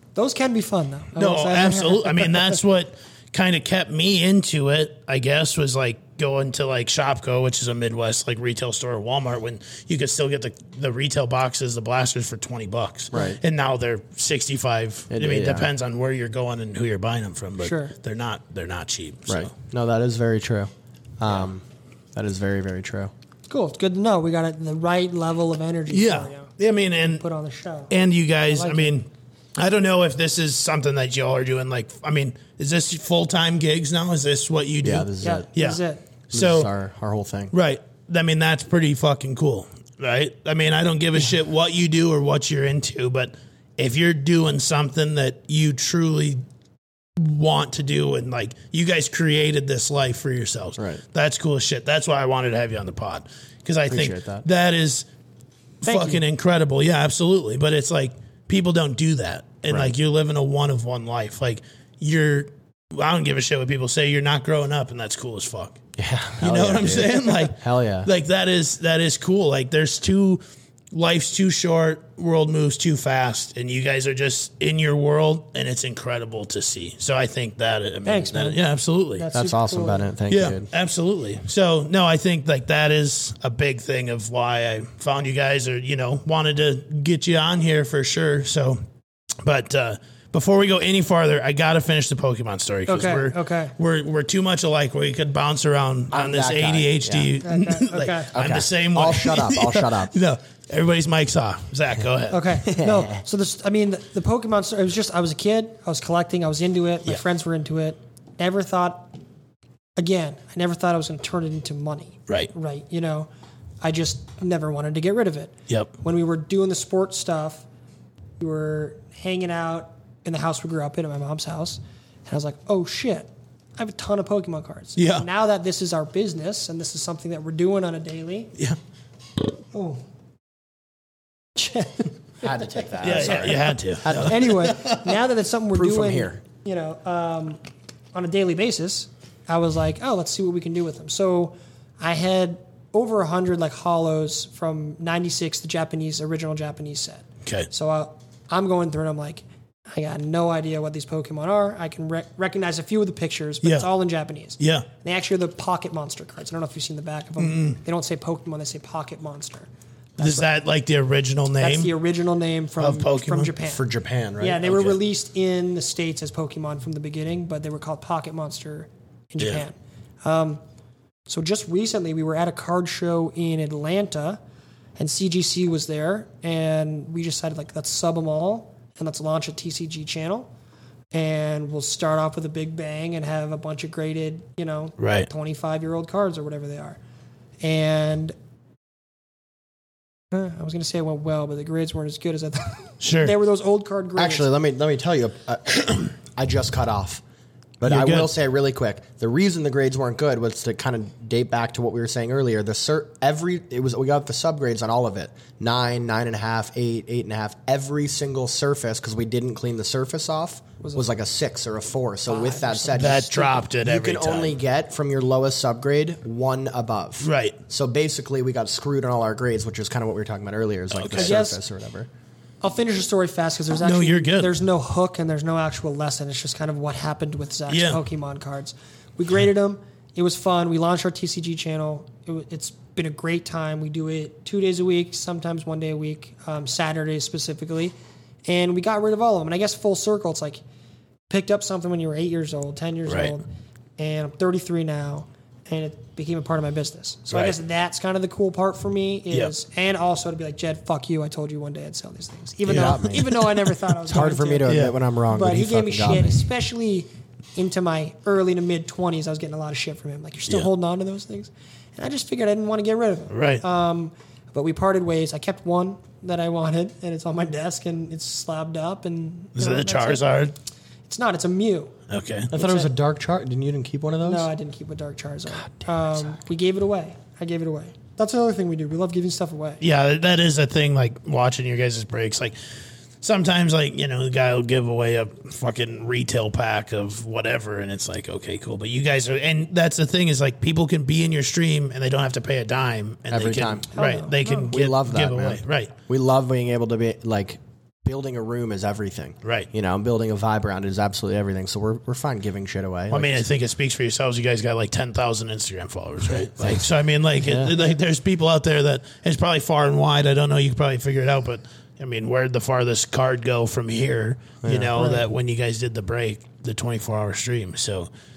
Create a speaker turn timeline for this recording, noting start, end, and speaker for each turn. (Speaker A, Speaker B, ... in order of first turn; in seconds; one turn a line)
Speaker A: 0.1-2.6
Speaker B: 1.1-19.5
Speaker C: 13.1-13.4
Speaker C: 15.1-15.7
Speaker A: 17.6-17.9
Speaker C: 19.3-23.1
Speaker A: 23.5-26.5
Speaker B: 25.9-27.2
Speaker A: 27.2-27.9
Speaker B: 27.9-29.1
Speaker A: 28.4-28.9
Speaker B: 29.6-36.7
Speaker C: 34.8-35.5
Speaker A: 35.2-36.0
Speaker C: 36.3-37.5
Speaker B: 37.5-46.4
Speaker B: 47.2-55.0
Speaker C: 50.8-51.0
Speaker C: 53.9-54.5
Speaker B: 55.8-65.8
Speaker A: 55.8-56.2
Speaker C: 66.0-68.1
Speaker B: 66.4-70.4
Speaker B: 70.9-79.2
Speaker A: 78.0-78.6
Speaker A: 79.2-80.1
Speaker C: 79.3-80.7
Speaker B: 80.3-88.8
Speaker B: 89.4-102.6
Speaker A: 92.9-93.7
Speaker C: 96.1-97.3
Speaker A: 97.4-98.3
Speaker C: 98.3-100.1
Speaker A: 102.3-109.1
Speaker C: 102.7-103.2
Speaker A: 110.0-113.3
Speaker A: 113.8-117.6
Speaker A: 118.4-128.5
Speaker B: 125.0-125.2
Speaker A: 129.7-130.0
Speaker A: 131.6-137.6
Speaker C: 132.4-134.8
Speaker B: 133.0-135.1
Speaker C: 135.7-136.4
Speaker A: 138.1-160.5
Speaker B: 153.6-153.9
Speaker B: 154.6-154.8
Speaker B: 157.4-157.8
Speaker B: 160.2-161.9
Speaker A: 161.6-163.8
Speaker B: 162.8-163.5
Speaker C: 163.6-165.0
Speaker A: 164.4-170.6
Speaker A: 171.3-174.4
Speaker A: 175.0-180.5
Speaker A: 181.1-187.0
Speaker B: 185.0-185.3
Speaker A: 187.6-188.3
Speaker A: 190.3-194.5
Speaker B: 193.0-193.3
Speaker C: 194.2-197.2
Speaker C: 197.8-222.1
Speaker B: 197.8-198.3
Speaker A: 212.2-213.4
Speaker B: 212.9-214.6
Speaker B: 217.2-217.6
Speaker B: 220.9-221.4
Speaker A: 221.1-221.6
Speaker A: 222.6-237.9
Speaker B: 223.8-224.5
Speaker B: 227.7-228.0
Speaker A: 238.4-240.6
Speaker A: 241.3-243.4
Speaker B: 243.1-243.3
Speaker A: 244.0-254.8
Speaker B: 247.3-247.6
Speaker C: 252.7-253.4
Speaker B: 252.7-253.4
Speaker C: 254.1-256.4
Speaker B: 254.7-254.9
Speaker A: 255.3-270.3
Speaker B: 263.3-263.6
Speaker B: 269.6-270.5
Speaker A: 271.1-271.9
Speaker B: 272.1-272.5
Speaker C: 272.5-274.5
Speaker A: 272.5-272.9
Speaker A: 274.2-279.8
Speaker B: 279.8-282.5
Speaker B: 283.2-295.9
Speaker C: 293.3-293.9
Speaker A: 293.9-294.7
Speaker C: 294.7-303.4
Speaker B: 303.1-318.1
Speaker C: 307.4-307.7
Speaker C: 314.6-314.9
Speaker A: 314.9-315.3